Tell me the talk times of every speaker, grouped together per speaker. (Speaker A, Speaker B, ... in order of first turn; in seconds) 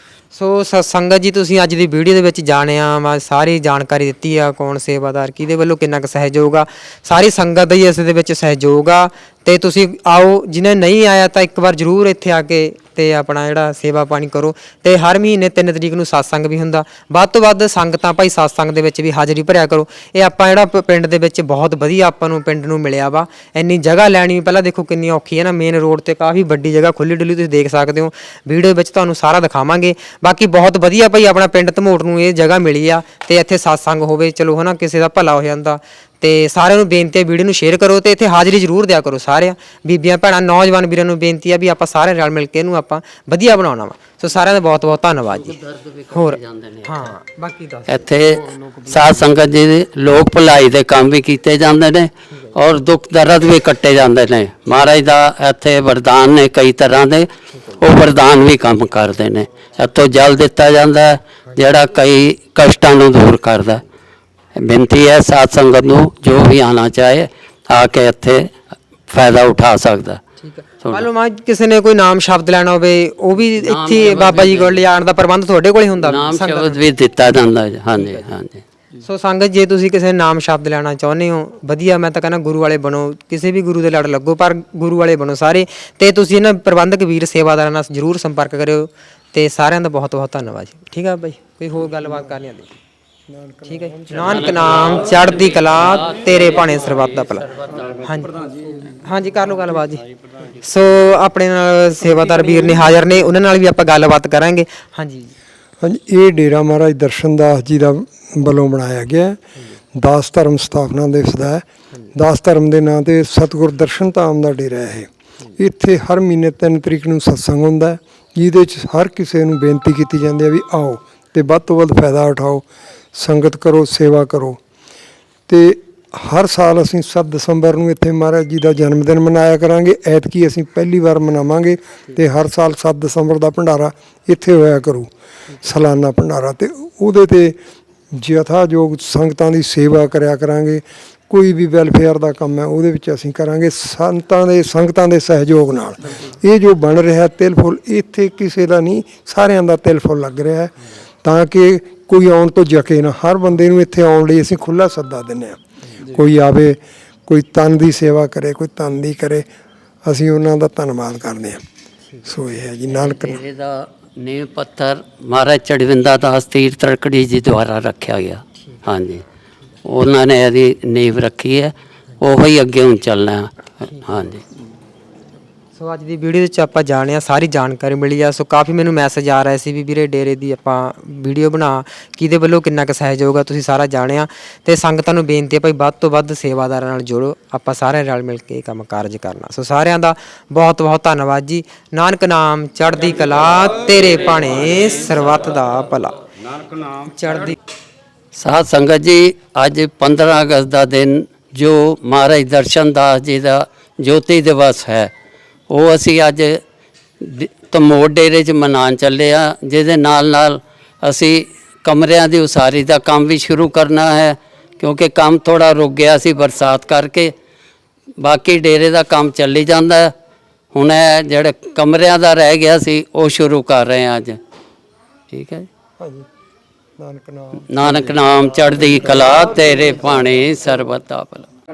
Speaker A: 0.3-45.6, 46.1-48.1, 52.3-52.6, 57.5-57.8, 70.4-76.9, 77.9-78.3, 79.0-92.7, 93.7-97.5, 98.0-98.4, 99.0-100.0, 100.6-105.3, 175.7-196.2, 197.0-197.6
Speaker B: 45.2-47.1, 47.9-63.8, 64.6-68.5, 69.1-70.2, 73.6-74.9, 76.0-78.6, 94.2-98.1, 162.9-169.2, 169.8-174.4, 198.3-205.1, 205.7-206.6, 207.2-217.3, 218.2-220.1, 220.7-224.4, 225.3-225.7, 227.7-231.5
Speaker C: 93.3-94.6, 105.8-109.4, 110.0-124.6, 125.5-137.6, 138.1-150.7, 151.2-159.5, 160.1-161.6, 162.2-163.4, 226.0-226.3, 227.0-228.2